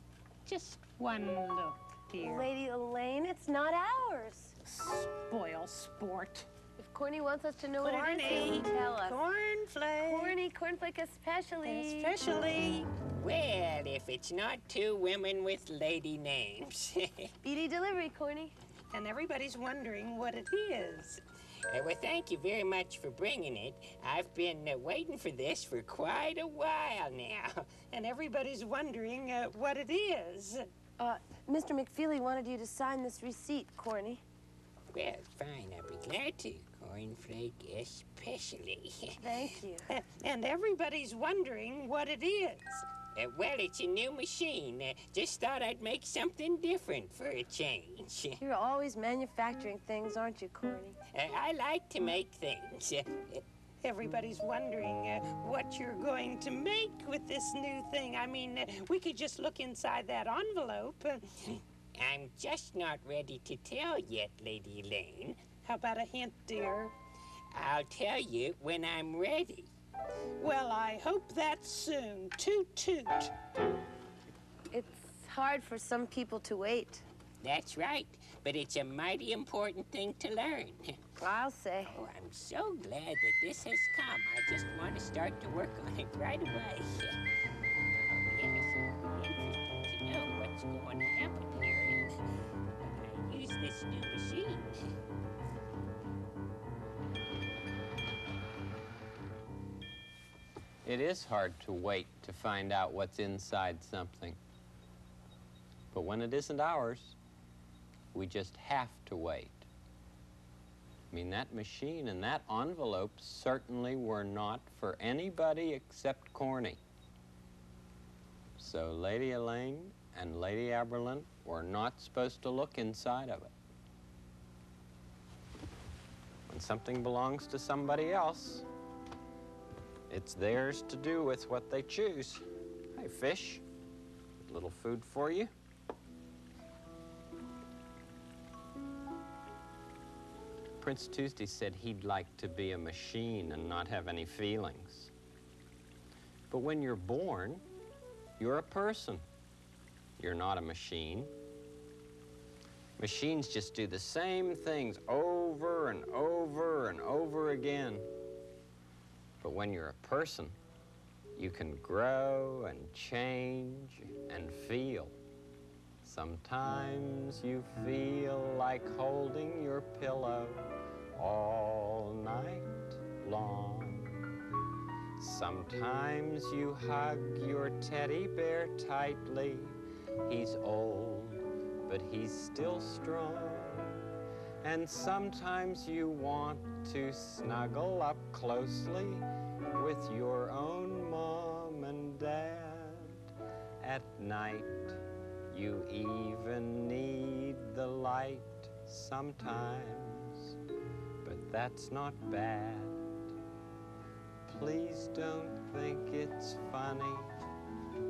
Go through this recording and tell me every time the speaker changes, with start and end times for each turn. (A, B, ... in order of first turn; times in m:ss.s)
0:00.5-0:02.5 A
0:02.2-0:04.6 B
0:04.7-0:06.5 A
0:06.8-0:09.2 B
0:07.8-0:10.4 A
0:10.1-0:12.2 B
0:11.6-0:12.9 A
0:13.2-0:17.3 C
0:17.4-0:18.5 B
0:18.9-0:21.2 A
0:21.7-0:28.3 C
0:28.2-0:30.6 A
0:31.0-0:34.2 B
0:34.9-0:48.4 C
0:39.2-0:39.9 B
0:48.4-0:51.0 B
0:51.1-0:53.4 C
0:53.8-1:01.2 A
1:01.4-1:05.6 C
1:05.6-1:06.9 A
1:07.5-1:09.7 C
1:10.4-1:13.3 A
1:14.7-1:17.0 B
1:17.4-1:21.0 C
1:21.2-1:22.0 B
1:21.9-1:27.2 C
1:28.1-1:32.1 C
1:32.8-1:34.8 C
1:40.8-1:44.4 D
1:45.9-1:47.2 D
1:48.1-1:49.7 D
1:51.1-1:56.8 D
1:58.6-2:03.5 D
2:06.5-2:08.6 D
2:10.1-2:12.4 D
2:13.0-2:13.6 D
2:14.4-2:15.5 D
2:20.8-2:25.1 D
2:26.5-2:27.6 D
2:28.4-2:29.2 D
2:30.2-2:31.3 D
2:33.0-2:38.1 D
2:39.4-2:40.6 D
2:41.4-2:45.2 D
2:46.0-2:54.3 D
2:55.2-3:04.0 D
3:04.6-3:13.2 D
3:13.8-3:15.0 D
3:15.5-3:20.6 D
3:21.2-3:23.0 D
3:24.5-3:27.4 D